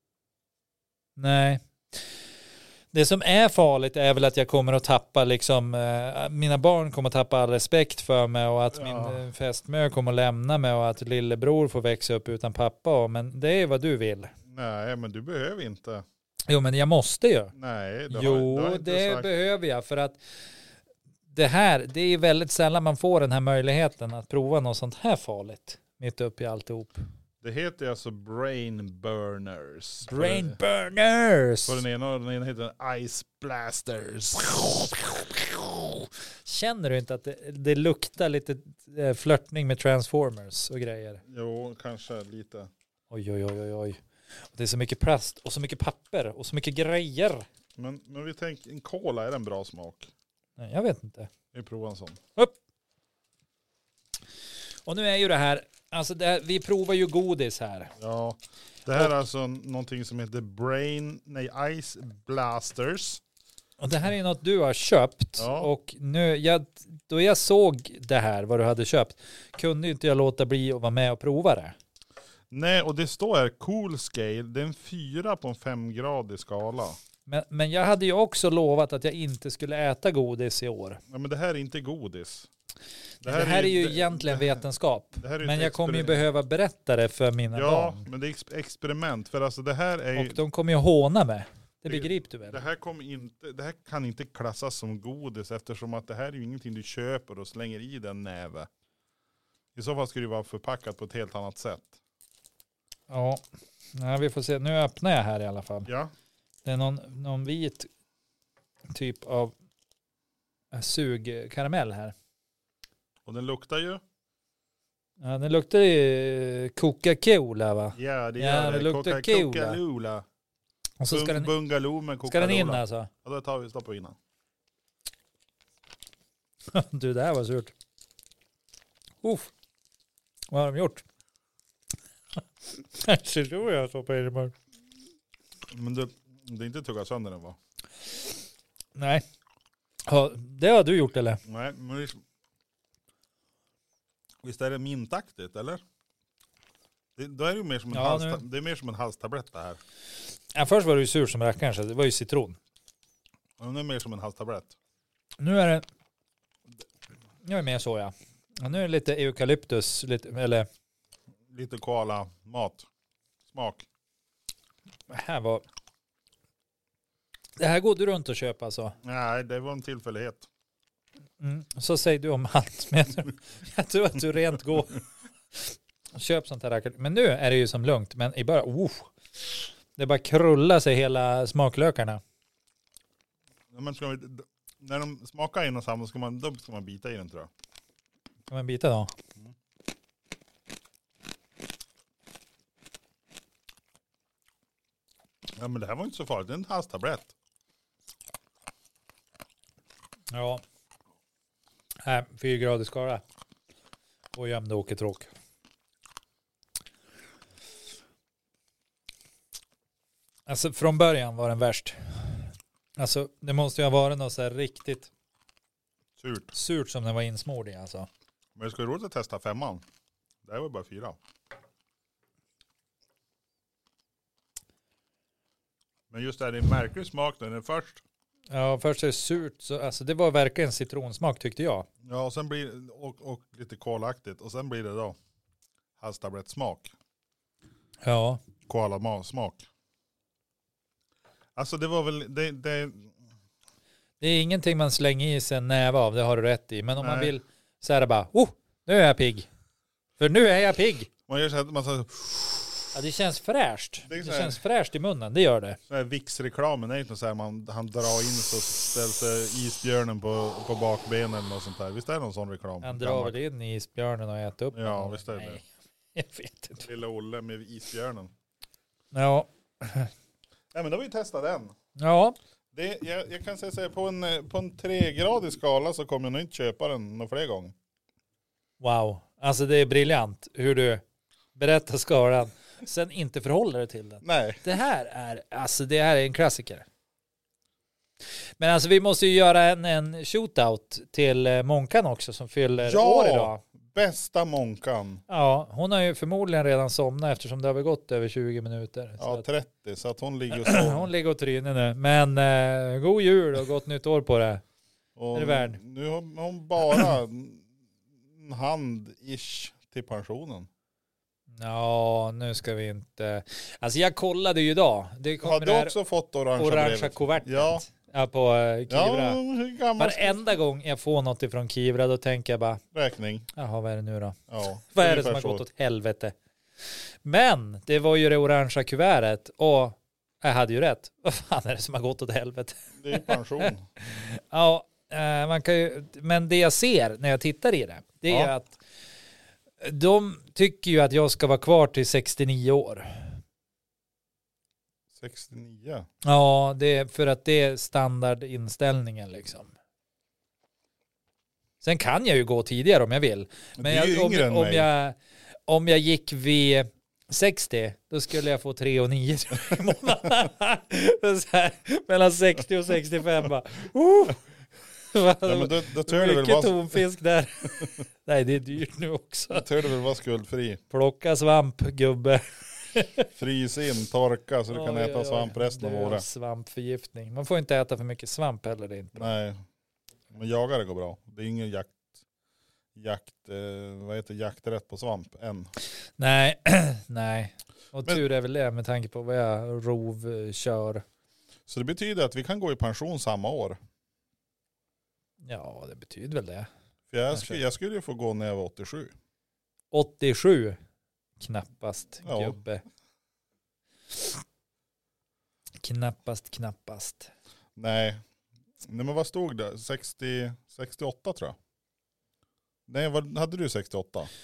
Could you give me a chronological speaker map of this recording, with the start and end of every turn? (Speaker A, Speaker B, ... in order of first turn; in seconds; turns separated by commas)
Speaker A: 1.2-2.0, Speaker A: 2.9-14.3, Speaker B: 8.7-9.2, Speaker B: 14.5-16.0, Speaker A: 16.5-17.5, Speaker B: 17.5-19.3, Speaker A: 18.1-20.2, Speaker A: 21.3-27.0, Speaker B: 27.4-30.6, Speaker A: 30.0-31.8, Speaker B: 31.7-35.4, Speaker A: 36.4-41.2, Speaker B: 41.3-42.7, Speaker A: 43.1-44.0, Speaker A: 44.5-47.5, Speaker B: 47.8-50.1, Speaker A: 50.6-51.3, Speaker B: 51.5-52.2, Speaker A: 54.9-57.9, Speaker B: 58.0-63.2, Speaker A: 63.8-71.8, Speaker B: 65.4-65.7, Speaker B: 72.5-77.0, Speaker A: 77.3-81.0, Speaker B: 81.1-82.5, Speaker B: 83.2-84.6, Speaker A: 83.2-88.0, Speaker B: 85.2-86.2, Speaker B: 87.5-90.4, Speaker A: 90.2-92.6, Speaker B: 91.8-98.7, Speaker B: 99.7-102.0, Speaker A: 103.1-103.4, Speaker A: 103.9-105.9, Speaker B: 105.9-106.1, Speaker A: 106.6-107.9, Speaker A: 108.9-109.5, Speaker A: 110.7-112.1, Speaker B: 113.2-114.0, Speaker A: 115.2-119.8, Speaker B: 117.9-120.2, Speaker A: 121.0-121.5, Speaker B: 121.1-124.2, Speaker A: 122.2-123.1, Speaker A: 126.7-127.7, Speaker A: 129.2-129.5, Speaker A: 130.5-131.0, Speaker A: 132.7-134.5, Speaker B: 135.7-137.6, Speaker A: 138.9-139.2, Speaker A: 140.1-141.4, Speaker B: 141.4-142.2, Speaker B: 144.4-145.8, Speaker B: 147.2-149.8, Speaker A: 147.9-148.4, Speaker A: 150.5-152.6, Speaker B: 153.6-154.8, Speaker A: 155.4-155.8, Speaker A: 157.4-160.7, Speaker B: 161.5-162.9, Speaker B: 163.5-163.9, Speaker A: 165.1-165.6, Speaker A: 167.6-168.9, Speaker B: 169.0-170.5, Speaker A: 171.4-175.0, Speaker A: 175.5-182.2, Speaker B: 183.7-187.5, Speaker A: 188.5-189.1, Speaker B: 195.6-197.3, Speaker A: 200.3-200.6, Speaker A: 202.0-203.2, Speaker A: 204.3-205.3, Speaker A: 210.5-215.1, Speaker B: 216.2-216.5, Speaker A: 216.5-218.1, Speaker B: 218.5-219.8, Speaker B: 220.4-221.2, Speaker B: 226.1-228.0, Speaker A: 228.5-231.9, Speaker B: 232.0-235.2, Speaker B: 236.0-236.9, Speaker A: 238.0-238.4, Speaker B: 238.7-239.7, Speaker B: 241.6-243.1, Speaker A: 244.2-249.5, Speaker B: 247.0-247.3, Speaker A: 250.2-251.1, Speaker B: 251.3-252.8, Speaker A: 252.9-255.8, Speaker B: 254.1-254.6, Speaker B: 255.9-263.4, Speaker A: 262.8-266.9, Speaker B: 264.7-265.6, Speaker B: 266.8-268.3, Speaker A: 269.1-270.1, Speaker B: 270.7-271.7, Speaker A: 272.0-272.4, Speaker B: 272.7-277.7, Speaker A: 278.8-281.0, Speaker A: 281.5-286.9, Speaker B: 284.2-284.6, Speaker A: 288.6-293.6, Speaker B: 292.8-295.2, Speaker A: 295.3-299.4, Speaker B: 299.2-301.1, Speaker A: 300.5-304.6, Speaker B: 305.1-307.6, Speaker A: 305.3-305.8, Speaker B: 308.3-310.7, Speaker A: 311.6-315.9, Speaker B: 315.4-317.8, Speaker A: 316.6-319.4, Speaker B: 318.9-320.5, Speaker A: 320.0-322.8, Speaker B: 322.9-323.5, Speaker A: 323.6-324.4, Speaker B: 324.5-325.6, Speaker A: 324.9-326.3, Speaker A: 327.2-338.8, Speaker B: 333.0-333.9, Speaker A: 339.8-343.4, Speaker B: 345.1-346.1, Speaker A: 346.2-349.7, Speaker A: 351.8-364.4, Speaker B: 353.8-354.9, Speaker A: 365.1-369.6, Speaker B: 365.4-367.0, Speaker B: 369.5-370.8, Speaker A: 370.9-373.3, Speaker B: 373.3-376.2, Speaker A: 374.7-379.3, Speaker B: 379.1-379.6, Speaker B: 380.3-382.0, Speaker B: 382.9-385.7, Speaker A: 386.2-391.0, Speaker B: 391.6-393.8, Speaker A: 395.4-396.7, Speaker B: 397.1-399.1, Speaker A: 397.3-397.6, Speaker A: 399.9-400.8, Speaker A: 401.4-402.8, Speaker B: 402.2-402.6, Speaker A: 405.8-407.3, Speaker B: 407.8-408.2, Speaker B: 408.8-411.6, Speaker B: 412.9-414.3